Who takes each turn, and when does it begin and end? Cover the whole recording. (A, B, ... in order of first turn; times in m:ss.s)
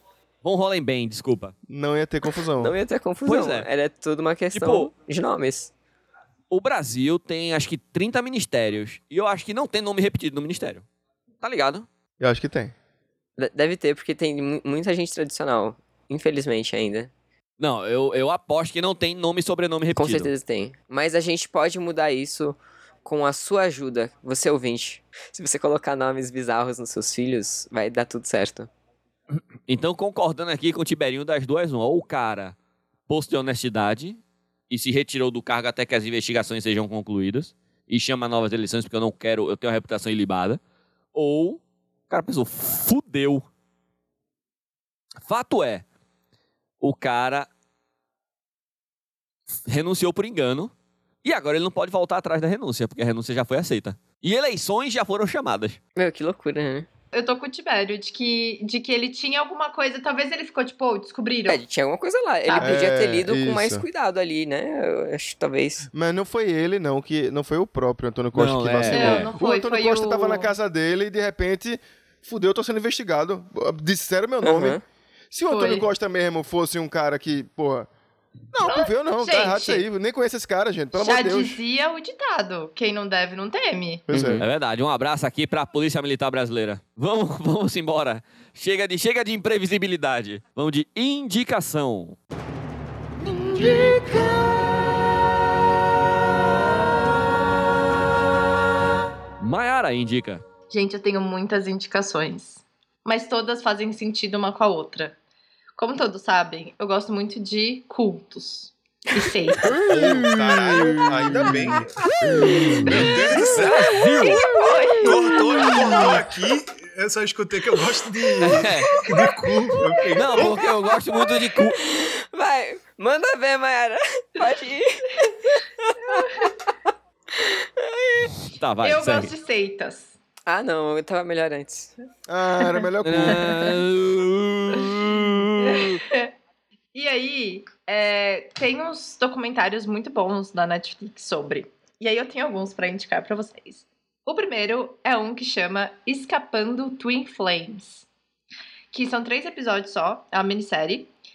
0:00.4-0:01.5 A
0:01.7-0:02.7 B
0:02.6-0:05.7 C
0:03.2-0:03.7 A
0:04.5-0:04.9 A
0:06.5-0:10.8 A
0:11.4-0:11.9 A
0:12.2-0:12.7 B
0:13.4-0:17.1 C
0:17.6-0:20.3 A
0:20.0-0:28.7 C
0:29.3-0:32.6 A
0:33.1-0:40.6 A
0:41.1-0:43.4 A
0:45.2-0:45.8 A
0:46.8-0:47.5 A
0:49.6-0:50.7 A
0:51.2-0:55.8 A
0:56.0-0:56.9 C
0:57.1-1:01.6 D
1:01.5-1:05.9 C
1:02.4-1:02.9 D
1:02.6-1:03.8 B
1:05.9-1:14.8 B
1:08.3-1:09.3 A
1:08.9-1:10.5 D
1:14.4-1:14.8 C
1:15.3-1:17.9 B
1:15.5-1:15.9 D
1:18.5-1:21.6 B
1:18.6-1:19.8 D
1:21.0-1:24.1 D
1:24.1-1:24.4 B
1:24.1-1:24.5 C
1:24.4-1:32.2 A
1:33.6-1:34.0 B
1:39.4-1:40.4 A
1:40.7-1:45.2 D
1:45.8-1:49.7 D
1:49.8-1:51.9 E
1:52.8-1:53.8 E
1:52.8-1:53.2 D
1:52.9-1:54.4 A
1:54.1-1:55.0 C
1:54.3-1:56.1 D
1:55.0-2:00.6 E
1:58.4-1:58.9 A
2:00.1-2:01.8 A
2:01.8-2:06.3 C
2:07.4-2:08.3 C
2:08.5-2:09.3 A
2:08.8-2:10.1 D
2:10.5-2:11.9 C
2:12.3-2:13.8 B
2:12.6-2:12.8 D
2:13.0-2:16.0 A
2:15.6-2:16.3 D
2:16.9-2:28.1 D
2:28.9-2:31.1 D